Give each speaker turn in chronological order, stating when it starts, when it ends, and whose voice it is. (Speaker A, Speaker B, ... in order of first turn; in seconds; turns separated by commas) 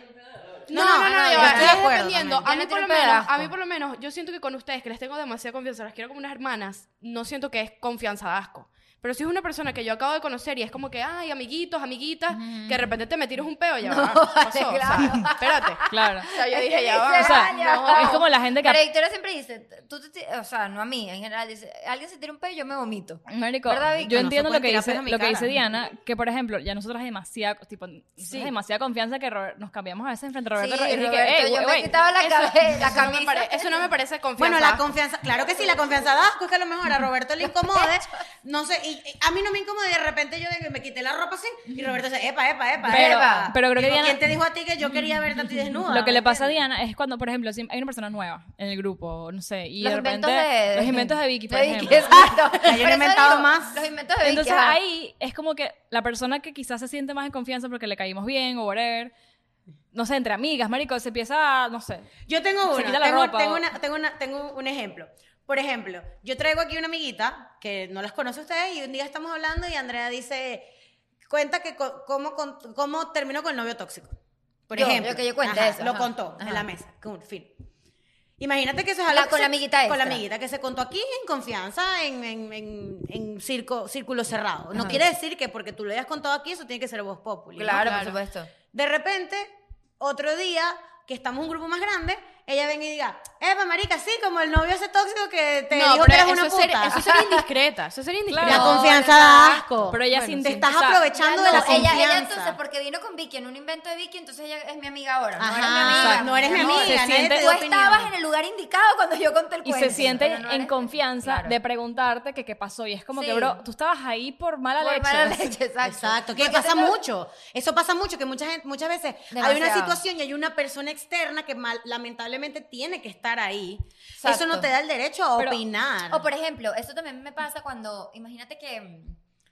Speaker A: 0.7-18.2, Speaker B: 0.7-2.5, Speaker C: 0.8-1.9, Speaker C: 2.4-3.5, Speaker C: 12.3-12.9, Speaker C: 13.8-24.2, Speaker D: 15.9-16.3, Speaker D: 17.1-18.8, Speaker D: 23.3-32.0, Speaker B: 24.1-25.5, Speaker C: 30.6-33.9, Speaker A: 32.2-34.8, Speaker B: 34.4-46.6, Speaker C: 37.4-38.2, Speaker D: 42.8-44.2, Speaker C: 42.9-43.5, Speaker D: 45.9-52.3, Speaker C: 49.8-54.8, Speaker B: 52.2-53.8, Speaker D: 54.2-59.1, Speaker D: 59.9-62.1, Speaker B: 62.3-70.7, Speaker D: 62.6-63.7, Speaker B: 71.3-74.2, Speaker B: 74.7-77.5, Speaker C: 74.7-76.6, Speaker B: 78.4-88.0, Speaker C: 79.1-80.2, Speaker C: 84.7-85.0, Speaker C: 87.5-88.5, Speaker A: 87.7-88.2, Speaker B: 88.7-97.0, Speaker A: 95.7-99.2, Speaker C: 96.9-97.4, Speaker D: 98.3-99.0, Speaker B: 98.4-102.6, Speaker C: 98.5-99.5, Speaker D: 99.9-102.0, Speaker A: 100.1-100.5, Speaker C: 101.1-111.5, Speaker B: 105.4-108.1, Speaker D: 105.8-107.5, Speaker D: 109.6-115.5, Speaker C: 113.1-113.6, Speaker C: 114.8-117.0, Speaker B: 115.8-126.3, Speaker C: 119.3-120.0, Speaker C: 124.2-124.7, Speaker C: 126.1-129.2